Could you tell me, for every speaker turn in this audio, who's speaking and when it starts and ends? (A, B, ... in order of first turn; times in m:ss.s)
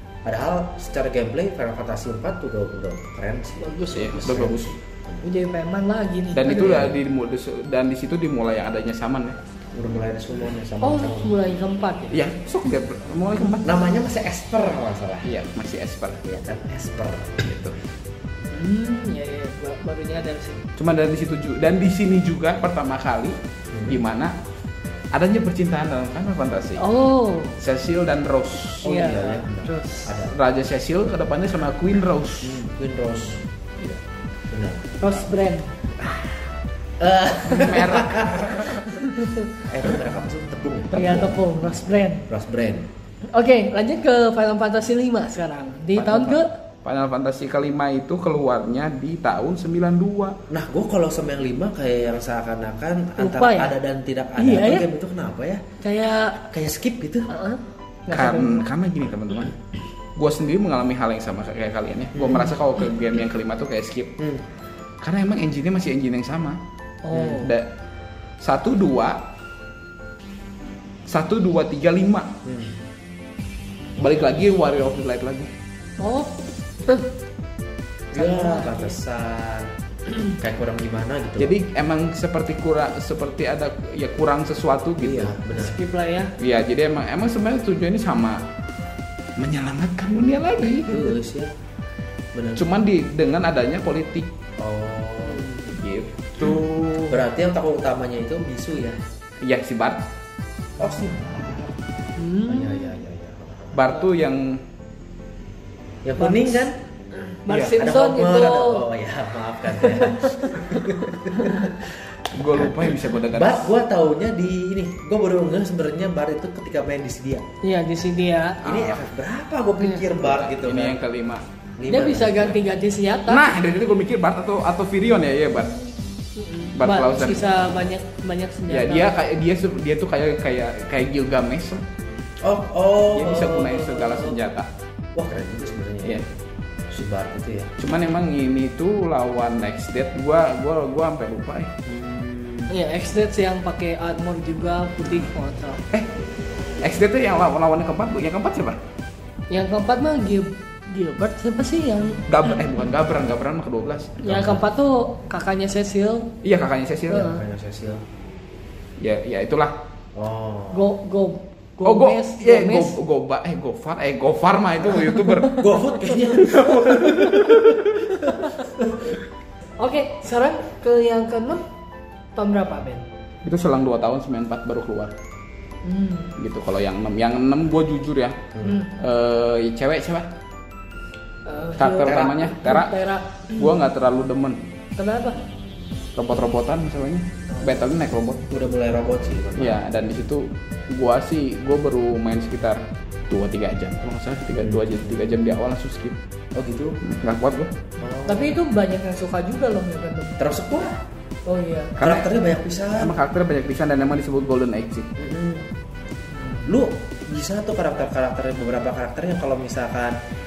0:00.2-0:05.2 A
0:03.6-0:04.3 B
0:03.9-0:04.7 C
0:05.2-0:06.9 B
0:06.3-0:09.4 C
0:06.6-0:07.0 A
0:09.7-0:11.3 A
0:10.8-0:12.3 B
0:12.1-0:13.8 C
0:13.6-0:15.3 A
0:15.2-0:16.2 C
0:16.2-0:17.4 A
0:17.4-0:17.8 C
0:18.5-0:20.7 B
0:20.8-0:24.3 C
0:23.7-0:24.0 A
0:25.1-0:26.8 C
0:26.8-0:27.6 B
0:27.6-0:29.1 C
0:28.8-0:30.4 A
0:28.8-0:30.1 B
0:30.3-0:32.6 C
0:32.4-0:34.0 A
0:34.5-0:35.2 A
0:35.0-0:35.7 B
0:37.0-0:38.8 A
0:37.5-0:38.6 C
0:38.9-0:39.5 B
0:39.6-0:41.4 A
0:40.9-0:42.3 B
0:42.3-0:42.9 A
0:43.3-0:46.5 B
0:45.9-0:50.4 C
0:50.5-0:55.6 A
0:53.2-0:53.7 B
0:54.4-0:54.8 B
0:55.8-0:56.4 B
0:56.4-0:57.3 A
0:57.3-0:58.6 B
0:58.1-0:59.6 C
1:00.2-1:04.1 C
1:02.1-1:02.6 A
1:04.2-1:04.4 A
1:05.0-1:06.6 C
1:07.0-1:07.5 B
1:07.1-1:07.4 A
1:07.2-1:07.6 C
1:08.4-1:09.2 C
1:11.1-1:12.4 C
1:12.4-1:12.8 A
1:14.0-1:15.5 C
1:16.0-1:17.1 B
1:18.1-1:19.7 A
1:18.1-1:19.0 B
1:20.4-1:21.6 A
1:21.4-1:25.3 C
1:25.0-1:25.8 A
1:25.5-1:26.3 B
1:26.4-1:28.4 C
1:29.4-1:30.9 C
1:30.8-1:31.5 A
1:32.3-1:32.6 A
1:32.6-1:34.3 C
1:34.6-1:35.5 A
1:35.2-1:35.8 B
1:35.8-1:37.2 C
1:36.4-1:39.0 A
1:39.4-1:40.0 C
1:40.8-1:41.8 A
1:42.2-1:43.0 B
1:42.4-1:44.0 A
1:43.7-1:44.6 C
1:46.0-1:46.8 A
1:46.2-1:48.9 B
1:47.5-1:47.7 C
1:47.7-1:51.9 A
1:49.7-1:51.7 B
1:52.3-1:53.7 C
1:52.4-1:57.4 A
1:57.6-1:58.6 B
1:58.6-2:01.0 A
1:58.6-1:59.0 C
2:00.2-2:01.4 C
2:01.8-2:02.6 A
2:01.9-2:03.5 B
2:03.3-2:05.8 C
2:06.4-2:09.1 B
2:06.8-2:07.8 C
2:08.7-2:11.8 C
2:12.4-2:14.4 A
2:13.1-2:14.7 C
2:15.2-2:16.2 A
2:16.9-2:17.7 A
2:17.8-2:21.7 C
2:21.8-2:22.7 A
2:22.7-2:25.8 B
2:26.8-2:28.8 C
2:29.5-2:32.6 B
2:32.3-2:34.2 C
2:34.2-2:36.3 B
2:34.2-2:34.6 A
2:36.4-2:37.3 C
2:37.1-2:38.0 A
2:37.1-2:37.4 B
2:39.0-2:39.8 C
2:40.1-2:40.8 A
2:40.7-2:42.9 B
2:41.8-2:48.2 C
2:45.1-2:45.6 B
2:45.5-2:47.8 A
2:48.2-2:48.7 B
2:49.8-2:51.6 B
2:52.4-2:53.0 B
2:53.4-2:55.1 C
2:55.8-2:56.3 B
2:56.4-2:58.4 C
2:58.5-2:58.8 A
2:58.6-2:58.9 B
2:59.0-3:00.3 C
3:01.4-3:03.8 B
3:01.8-3:03.0 C
3:02.0-3:02.4 A
3:03.5-3:04.6 C
3:05.0-3:05.4 B
3:06.2-3:08.4 C
3:07.5-3:07.9 A
3:08.5-3:09.8 A
3:09.6-3:16.2 C
3:14.6-3:15.2 A
3:16.5-3:17.0 A
3:17.0-3:17.7 C
3:18.0-3:18.6 A
3:18.2-3:20.4 B
3:20.4-3:21.0 A
3:21.5-3:22.0 B
3:22.0-3:22.3 C
3:22.0-3:23.1 A
3:23.0-3:25.1 C
3:25.2-3:25.7 A
3:26.4-3:26.7 B
3:26.6-3:30.2 A